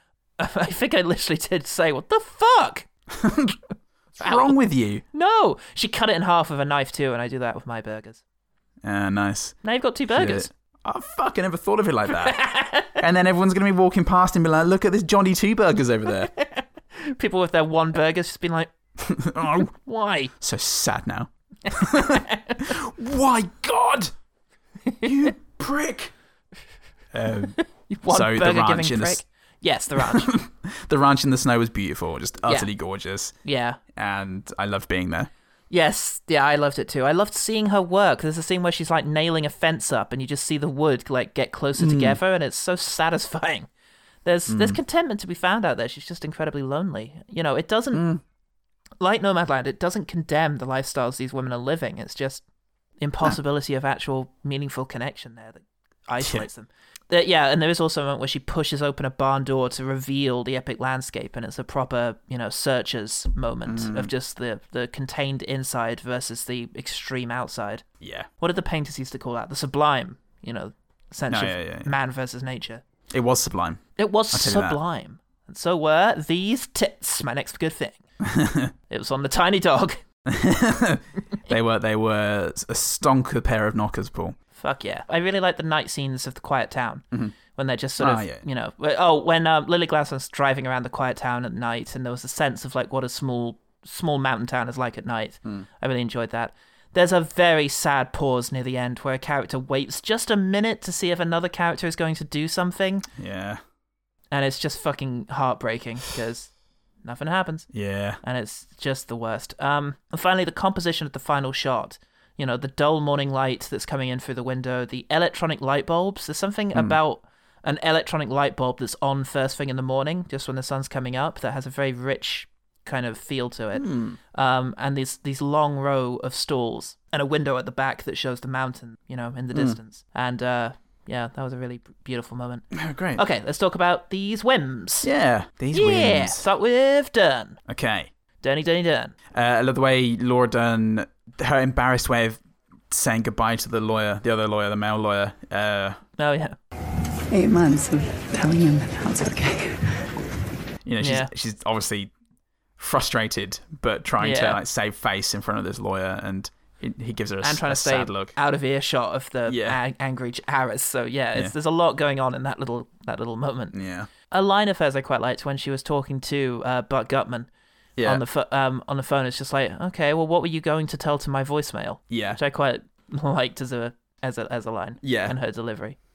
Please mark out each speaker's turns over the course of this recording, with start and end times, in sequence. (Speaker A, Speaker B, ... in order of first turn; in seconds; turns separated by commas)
Speaker A: 0.4-2.9, Speaker B: 3.1-3.6, Speaker B: 4.2-5.0, Speaker A: 5.1-8.2, Speaker B: 8.8-12.4, Speaker A: 9.6-10.5, Speaker A: 12.2-12.9, Speaker B: 13.0-16.3, Speaker A: 16.4-18.7, Speaker B: 19.0-19.7, Speaker A: 19.8-20.3, Speaker B: 20.4-24.1, Speaker A: 22.0-22.6, Speaker B: 25.0-26.1, Speaker B: 27.1-29.2, Speaker A: 27.9-30.3, Speaker B: 30.0-33.4, Speaker A: 33.4-33.8, Speaker B: 34.0-35.3, Speaker A: 35.7-43.7, Speaker B: 41.8-42.2, Speaker A: 44.2-48.0, Speaker B: 44.5-44.8, Speaker B: 47.9-48.2, Speaker A: 49.0-52.4, Speaker A: 53.0-67.8, Speaker B: 56.2-56.5, Speaker B: 63.7-64.1, Speaker B: 68.0-68.3, Speaker A: 68.4-72.8, Speaker B: 71.3-71.9, Speaker B: 73.1-74.8, Speaker A: 74.0-78.0, Speaker B: 78.2-78.7, Speaker A: 78.9-80.0, Speaker B: 80.3-84.4, Speaker A: 84.5-103.0, Speaker B: 88.0-88.4, Speaker B: 103.2-103.6, Speaker A: 104.3-106.5, Speaker A: 107.0-107.7, Speaker B: 107.7-108.2, Speaker A: 108.2-135.1, Speaker B: 123.8-124.2, Speaker B: 132.7-133.2, Speaker B: 135.0-136.4, Speaker A: 135.7-137.6, Speaker B: 137.7-138.1, Speaker A: 138.4-139.1, Speaker B: 139.3-142.4, Speaker B: 142.9-146.0, Speaker A: 146.2-146.6, Speaker C: 147.3-150.0, Speaker B: 150.8-152.1, Speaker A: 151.0-151.3, Speaker B: 152.8-158.3, Speaker A: 154.2-154.6, Speaker A: 157.4-163.7, Speaker B: 159.5-159.8, Speaker B: 163.7-164.1, Speaker A: 164.3-167.5, Speaker B: 168.0-168.2, Speaker A: 168.0-175.9, Speaker B: 172.1-172.4, Speaker B: 175.0-175.3